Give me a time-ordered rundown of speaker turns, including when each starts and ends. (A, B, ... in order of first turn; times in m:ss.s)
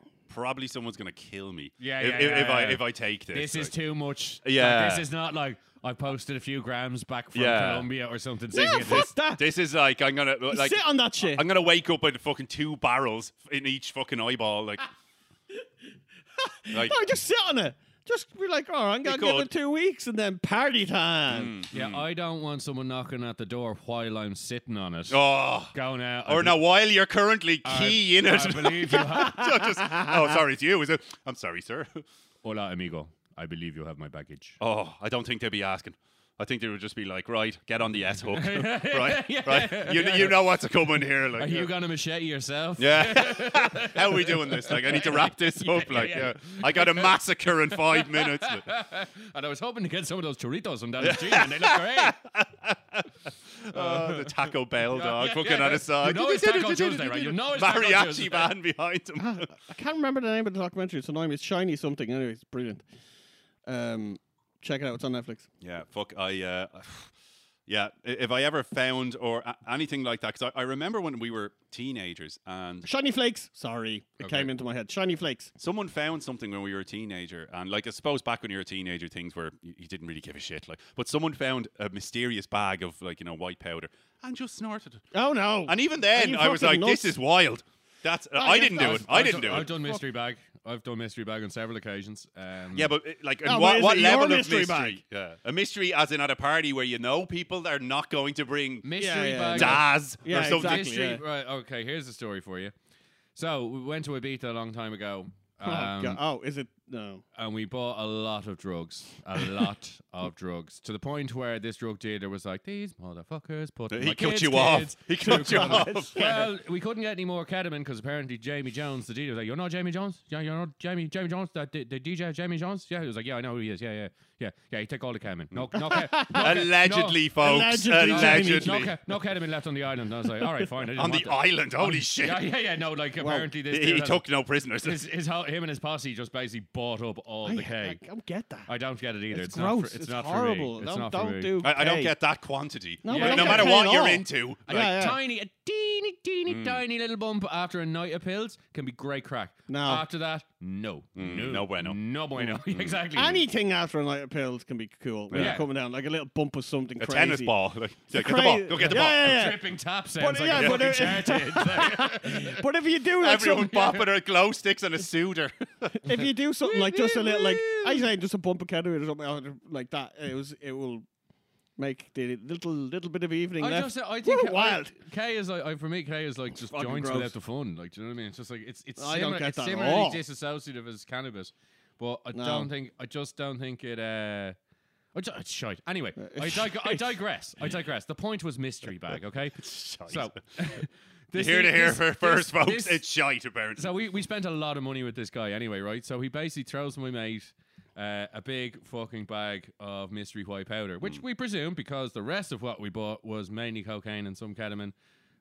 0:00.3-0:03.7 A
0:01.8-0:09.1 B
0:04.4-0:05.0 A
0:07.3-0:07.9 A
0:08.5-0:09.4 C
0:08.7-0:14.9 A
0:10.5-0:11.4 C
0:16.4-0:21.6 C
0:16.7-0:17.0 A
0:19.0-0:19.5 A
0:21.3-0:22.0 A
0:21.7-0:26.6 B
0:25.1-0:25.7 A
0:26.2-0:32.0 A
0:27.6-0:29.6 B
0:32.4-0:34.6 B
0:34.6-0:41.7 A
0:38.3-0:40.4 B
0:41.4-0:47.1 B
0:42.8-0:48.6 A
0:47.7-0:52.2 B
0:51.0-0:59.5 A
0:53.7-0:58.5 B
0:59.2-1:02.8 C
1:03.6-1:05.5 C
1:05.6-1:07.1 A
1:07.7-1:12.9 A
1:12.8-1:15.5 C
1:14.2-1:14.5 B
1:15.6-1:25.0 A
1:25.1-1:27.2 C
1:25.6-1:29.7 A
1:28.4-1:30.0 C
1:28.7-1:32.9 B
1:32.7-1:38.8 A
1:33.4-1:35.0 C
1:38.8-1:42.7 B
1:39.0-1:41.2 C
1:39.5-1:40.8 A
1:43.3-1:46.2 B
1:45.6-1:47.2 C
1:47.4-2:07.2 B
1:53.9-1:56.3 A
1:55.2-1:56.4 C
2:05.5-2:08.9 A
2:05.7-2:06.7 C
2:07.4-2:08.8 C
2:08.0-2:14.2 B
2:10.9-2:12.5 A
2:13.2-2:13.5 C
2:13.7-2:15.0 A
2:14.8-2:18.0 B
2:17.4-2:18.7 C
2:18.7-2:21.6 B
2:19.3-2:22.1 C
2:21.6-2:25.0 A
2:23.0-2:25.2 C
2:23.1-2:23.8 B
2:24.7-2:33.4 B
2:26.5-2:26.8 A
2:29.7-2:30.0 C
2:31.2-2:33.0 A
2:33.1-2:37.5 C
2:35.3-2:35.6 A
2:35.3-2:35.6 B
2:37.0-2:39.5 A
2:38.1-2:39.6 C
2:38.8-2:42.6 B
2:40.2-2:44.0 C
2:40.5-2:41.1 A
2:43.2-2:46.1 A
2:46.0-2:51.0 C
2:46.6-2:48.0 B
2:51.8-2:54.9 C
2:53.6-3:04.6 B
2:56.7-2:57.3 C
2:59.0-3:00.2 C
3:02.3-3:02.7 C
3:05.1-3:13.0 B
3:06.2-3:07.1 C
3:09.6-3:10.3 A
3:11.3-3:13.9 A
3:13.8-3:24.9 B